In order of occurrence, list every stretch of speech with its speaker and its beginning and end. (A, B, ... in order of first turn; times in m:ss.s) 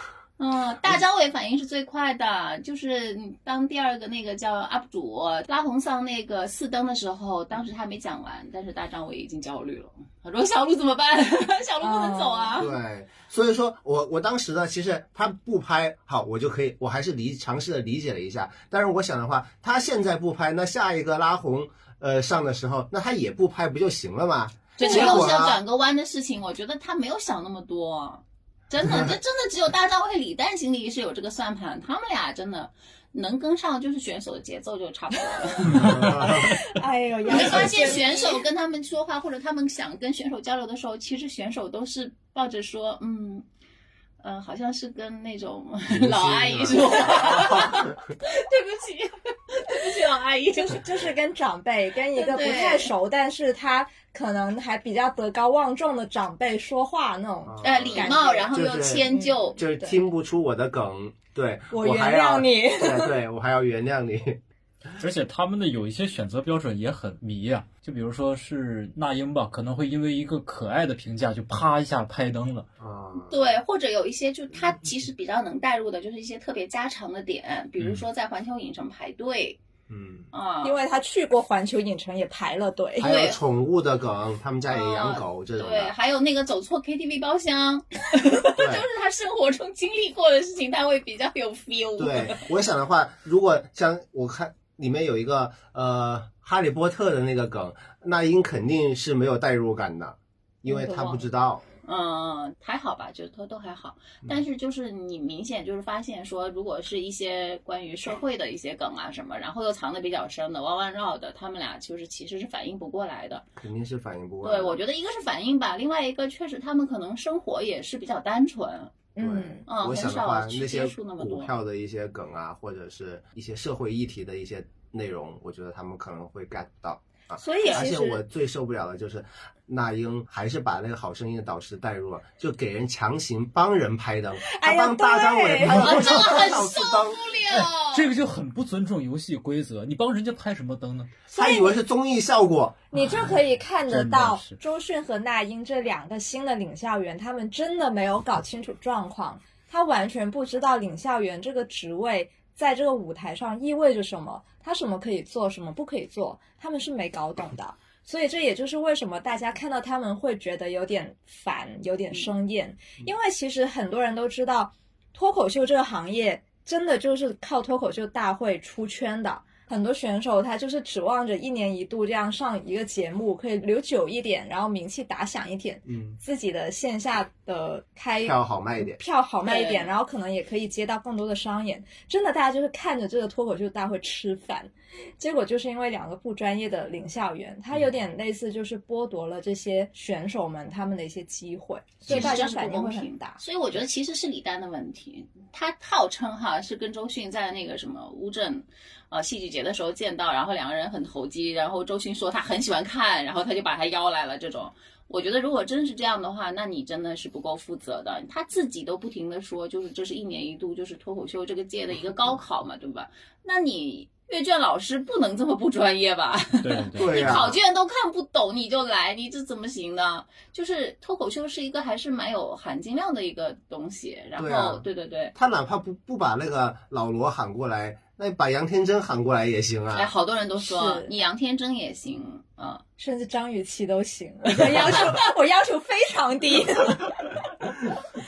0:00.4-0:12.7 A
0:11.8-0:12.6 B
0:12.6-0:25.6 C
0:24.8-0:36.2 A
0:24.8-0:25.2 B
0:35.7-0:36.5 C
0:36.3-0:38.4 B
0:37.3-0:43.4 A
0:44.2-0:50.8 A
0:45.9-0:47.6 C
0:50.6-0:58.5 B
0:52.1-0:52.9 A
0:57.4-1:04.4 C
0:57.6-0:59.6 A
0:59.1-1:00.0 B
1:01.7-1:03.2 B
1:05.0-1:12.6 D
1:12.8-1:13.6 C
1:13.1-1:19.6 A
1:19.9-1:20.3 C
1:20.3-1:20.8 A
1:20.6-1:23.1 B
1:23.0-1:25.9 C
1:23.0-1:23.4 A
1:24.6-1:32.4 A
1:28.6-1:28.9 C
1:32.0-1:41.6 C
1:40.6-1:41.3 B
1:41.8-1:53.4 A
1:53.6-1:54.8 C
1:54.4-1:58.9 A
1:59.2-1:59.6 B
1:59.2-2:17.3 C
1:59.6-2:01.5 A
2:07.4-2:08.2 B
2:07.6-2:07.8 A
2:14.4-2:16.1 B
2:15.7-2:18.1 A
2:17.5-2:21.2 D
2:21.3-2:21.8 B
2:21.3-2:22.9 C
2:22.9-3:13.4 B
2:23.9-2:24.6 D
2:55.9-2:56.2 C
2:58.2-2:59.0 C
2:59.4-2:59.9 A
3:12.1-3:45.3 A
3:36.6-3:37.5 D
3:37.0-3:37.6 C
3:44.4-3:44.8 C
3:45.4-3:50.1 C
3:49.9-3:52.8 A
3:50.6-3:51.1 B
3:53.0-3:57.4 B
3:54.6-3:55.0 A